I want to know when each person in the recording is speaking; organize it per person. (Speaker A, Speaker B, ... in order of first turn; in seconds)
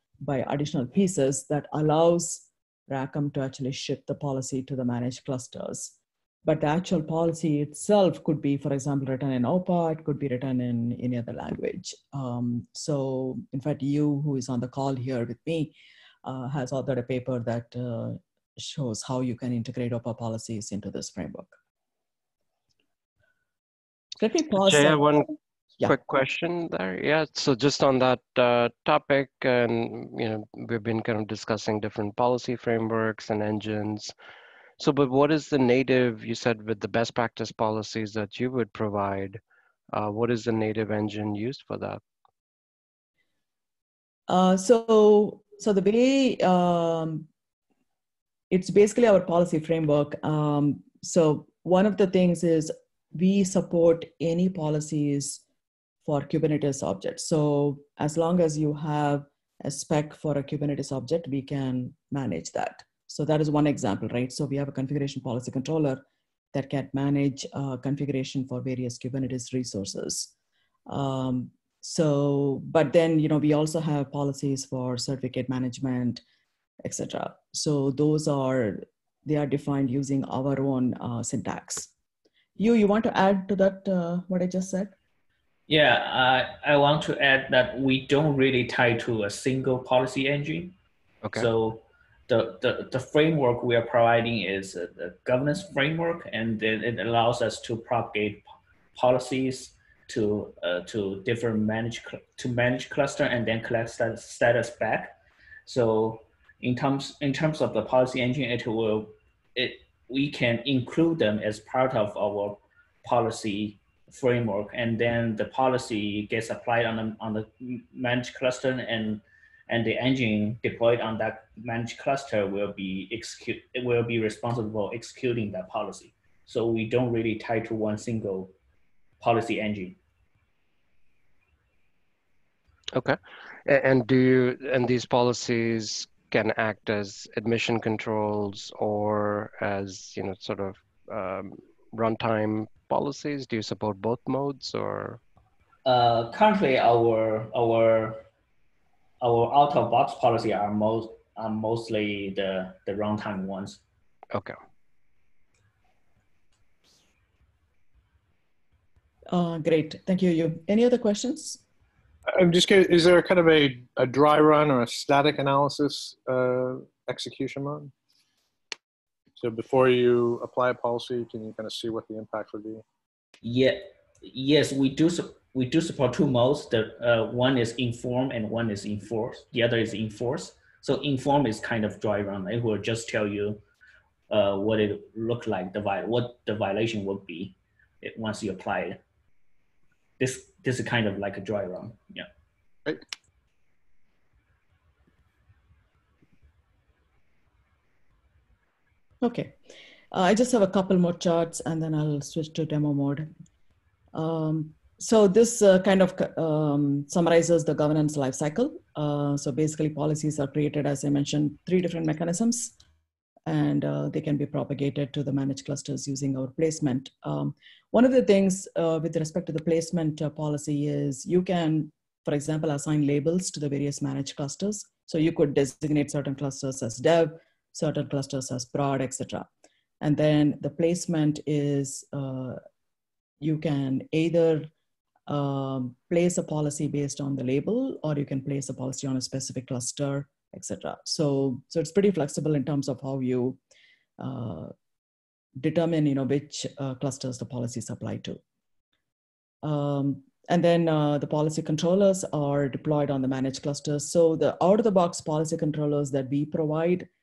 Speaker A: 0.2-21.5, 24.2-25.9, 44.3-47.3, 48.5-55.4, 56.0-66.0, 66.5-70.3, 70.9-76.2, 76.8-81.9, 82.6-84.9, 159.3-161.6, 199.2-199.6, 200.1-203.3, 204.1-212.8, 213.5-229.5, 230.0-232.6, 233.4-234.7, 235.3-243.6, 244.2-244.7, 245.6-248.4, 249.6-257.1
Speaker B: 24.6-25.3, 25.8-34.1, 34.8-39.4, 39.9-42.0, 132.9-145.2
Speaker C: 85.7-90.8, 91.3-128.5, 129.2-130.0, 145.8-148.2, 149.2-153.8, 173.4-183.6, 184.3-189.0, 190.2-192.3
Speaker D: 162.3-167.9, 169.4-172.8